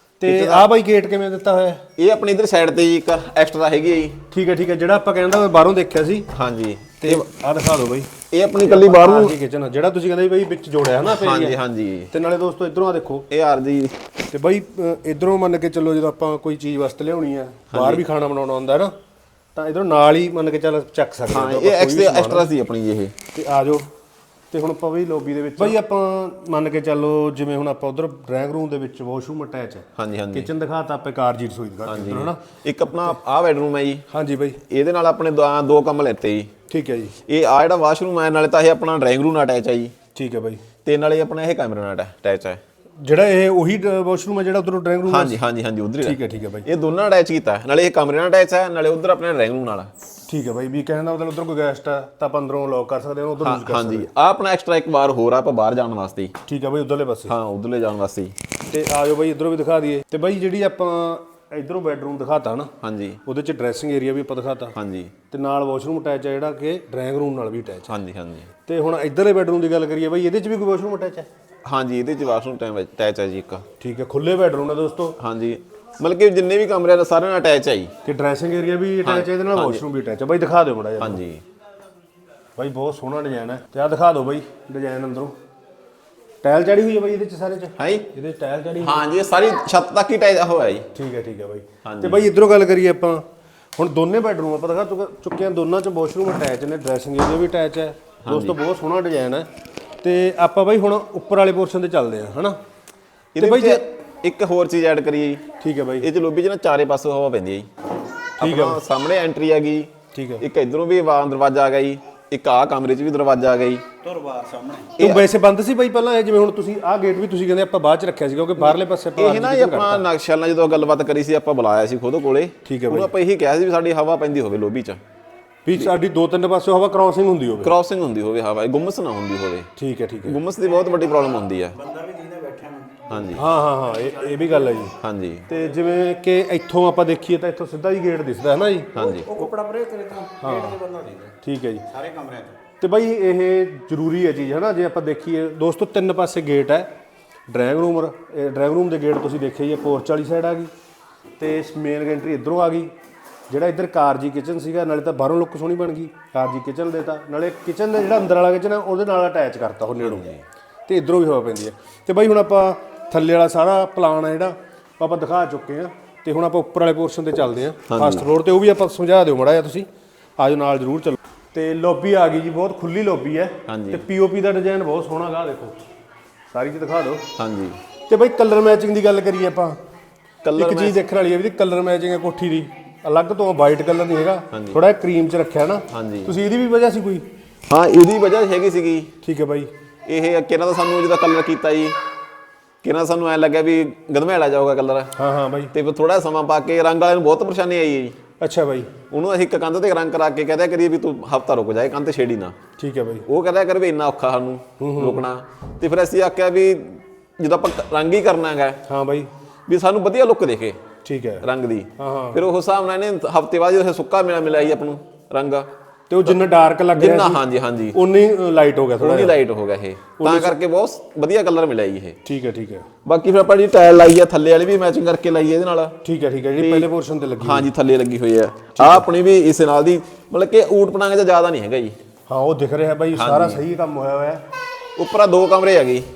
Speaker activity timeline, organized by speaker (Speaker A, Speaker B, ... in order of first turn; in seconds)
Speaker A: 0.2-1.8, 4.3-6.3, 7.0-8.1, 8.6-11.6, 12.1-13.3, 14.3-18.9, 19.6-22.5, 23.3-23.9, 24.5-32.4, 34.1-34.6, 36.7-37.2, 40.1-40.6, 43.0-45.4, 46.0-46.7, 50.3-54.1, 56.5-57.3, 58.7-62.7, 63.2-64.8, 65.3-67.9, 68.7-71.3, 73.8-75.2, 78.0-81.2, 82.6-85.3, 86.4-89.0, 90.9-93.2, 93.8-99.5, 100.0-102.6, 103.4-103.8, 105.6-106.1, 108.4-108.8, 110.1-110.4, 115.0-120.1, 122.7-123.1, 125.7-127.7, 129.8-130.4, 133.3-134.9, 135.5-138.9, 140.4-140.8, 141.4-141.9, 142.8-146.9, 147.5-150.7, 151.4-152.9, 153.5-160.3, 160.9-175.8, 176.5-177.3, 178.1-179.8, 180.6-187.2, 189.2-189.7, 195.2-195.7, 198.4-198.9, 202.8-203.3, 204.8-205.2, 208.9-209.3, 211.1-211.5, 212.0-212.4, 216.1-217.4, 217.9-219.4, 220.2-220.6, 222.2-222.9, 226.0-227.7, 228.8-229.1, 232.3-234.4
Speaker B: 0.2-0.7, 2.0-4.2, 6.3-7.3, 8.3-9.4, 11.1-12.1, 13.3-13.9, 17.7-18.0, 21.3-23.1, 30.0-30.5, 31.9-34.0, 34.7-36.5, 37.3-39.9, 40.9-42.6, 45.1-49.9, 53.4-56.3, 57.3-58.3, 62.8-63.2, 64.7-65.1, 67.9-68.5, 71.7-73.7, 75.2-77.9, 79.0-79.8, 81.0-81.4, 87.8-88.1, 88.8-90.9, 91.8-92.3, 98.2-98.6, 103.3-105.4, 106.0-107.7, 108.4-113.8, 115.0-115.3, 118.6-125.0, 127.6-129.7, 130.2-131.8, 133.1-133.5, 135.0-135.5, 138.9-139.3, 160.0-160.4, 167.9-168.3, 173.7-174.1, 177.4-177.8, 180.4-181.0, 184.5-184.8, 185.9-186.3, 187.7-189.1, 190.1-192.0, 192.8-195.1, 195.7-198.2, 199.1-202.6, 203.3-208.8, 209.7-210.8, 211.4-215.7, 217.0-218.0, 219.0-222.2, 223.1-226.0, 226.6-226.9, 227.4-232.0, 233.1-233.6, 235.0-236.1
Speaker C: 114.0-114.9, 130.6-130.9, 131.7-134.9, 139.0-141.4, 141.9-142.6